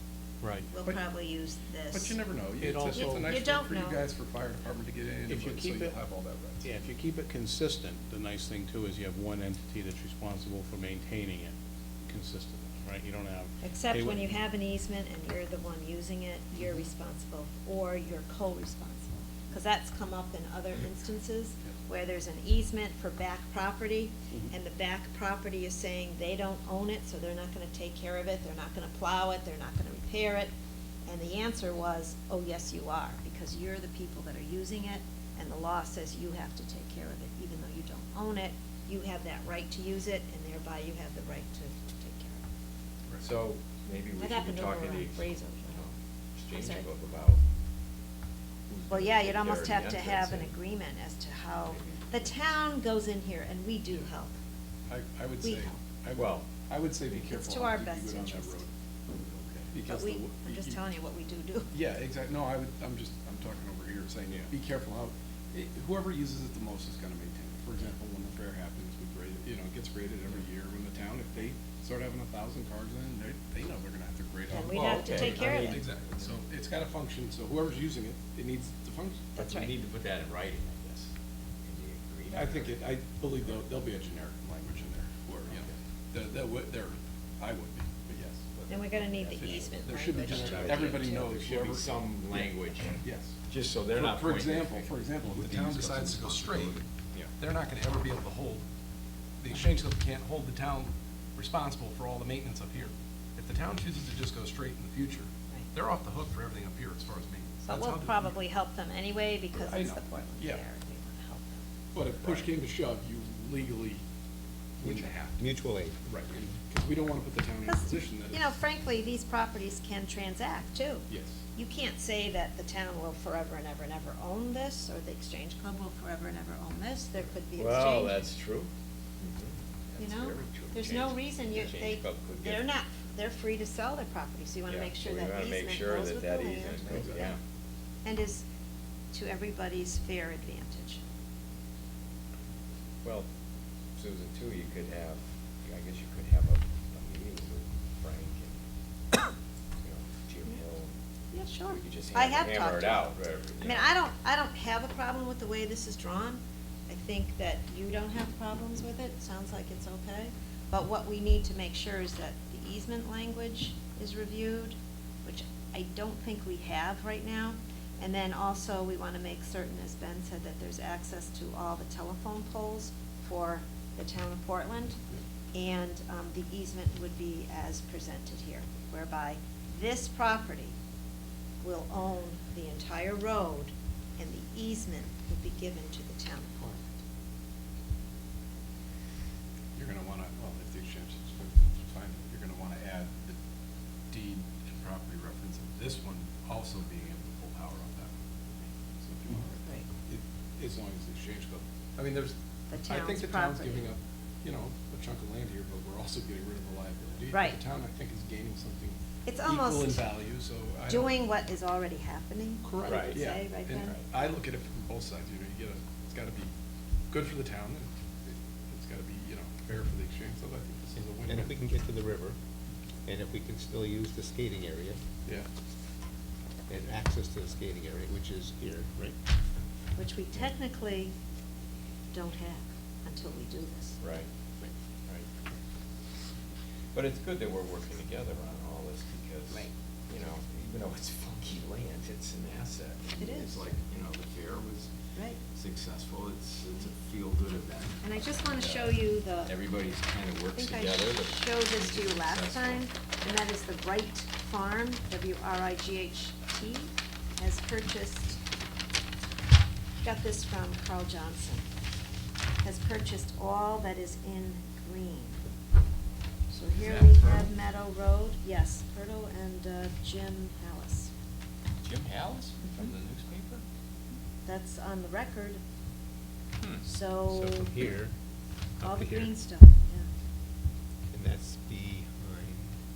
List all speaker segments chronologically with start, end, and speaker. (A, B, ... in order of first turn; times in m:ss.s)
0:00.4-0:00.7 A
0:00.7-0:02.2 B
0:01.9-0:06.6 C
0:02.6-0:03.4 A
0:02.9-0:04.0 B
0:05.3-0:06.0 A
0:06.6-0:11.5 A
0:12.1-0:14.4 A
0:13.6-0:30.5 B
0:31.0-0:42.4 B
0:43.2-0:47.4 D
0:44.2-0:45.9 B
0:46.6-0:46.9 B
0:48.7-0:50.6 D
0:48.9-0:54.4 B
0:51.7-0:52.3 D
0:54.9-0:58.7 C
0:55.4-0:55.8 B
0:56.2-0:56.5 D
0:57.2-0:58.7 B
0:59.2-0:59.7 D
0:59.7-1:00.8 C
0:59.8-1:01.7 B
1:01.7-1:19.3 C
1:14.5-1:15.8 B
1:14.6-1:16.3 D
1:19.4-1:19.8 B
1:19.4-1:21.1 D
1:21.6-1:22.8 D
1:22.3-1:28.4 C
1:28.3-1:34.9 D
1:28.7-1:31.2 B
1:29.4-1:32.5 C
1:33.0-1:33.4 C
1:33.9-1:36.8 C
1:35.2-1:36.8 E
1:37.4-1:38.6 C
1:39.4-1:48.4 C
1:47.6-1:51.6 B
1:49.5-1:50.6 C
1:51.9-1:54.0 C
1:54.8-1:55.5 C
1:55.4-1:56.0 E
1:56.0-1:58.5 C
1:57.7-2:08.3 B
2:01.1-2:01.4 C
2:07.6-2:12.6 D
2:10.0-2:17.4 B
2:14.7-2:17.4 D
2:16.9-2:17.3 C
2:18.0-2:18.4 B
2:19.1-2:21.0 B
2:24.0-2:28.6 D
2:29.8-2:30.9 D
2:31.3-2:55.0 B
2:31.7-2:33.9 D
2:55.5-3:00.8 B
3:01.6-3:06.7 B
3:09.8-3:13.4 C
3:14.1-3:18.2 C
3:19.0-3:31.2 C
3:19.6-3:19.9 B
3:22.7-3:23.9 B
3:27.3-3:27.6 B
3:29.2-3:30.0 B
3:30.9-3:34.3 B
3:32.6-3:36.5 C
3:32.8-3:33.2 D
3:37.1-3:41.6 C
3:41.2-3:42.4 E
3:43.1-3:45.0 E
3:46.7-3:49.2 E
3:50.0-3:51.1 B
3:52.1-3:54.0 B
3:54.0-3:54.3 D
3:56.9-4:04.9 D
4:03.2-4:03.6 B
4:05.5-4:08.9 D
4:08.0-4:09.6 B
4:09.4-4:12.8 D
4:10.5-4:18.4 B
4:20.0-4:21.7 B
4:22.6-4:25.4 B
4:26.5-4:31.1 B
4:26.8-4:27.5 D
4:31.8-4:33.6 D
4:32.6-4:32.9 B
4:34.4-4:35.6 B
4:36.8-4:37.8 B
4:37.3-4:38.1 E
4:38.8-4:39.3 E
4:38.8-4:40.1 B
4:41.1-4:42.8 E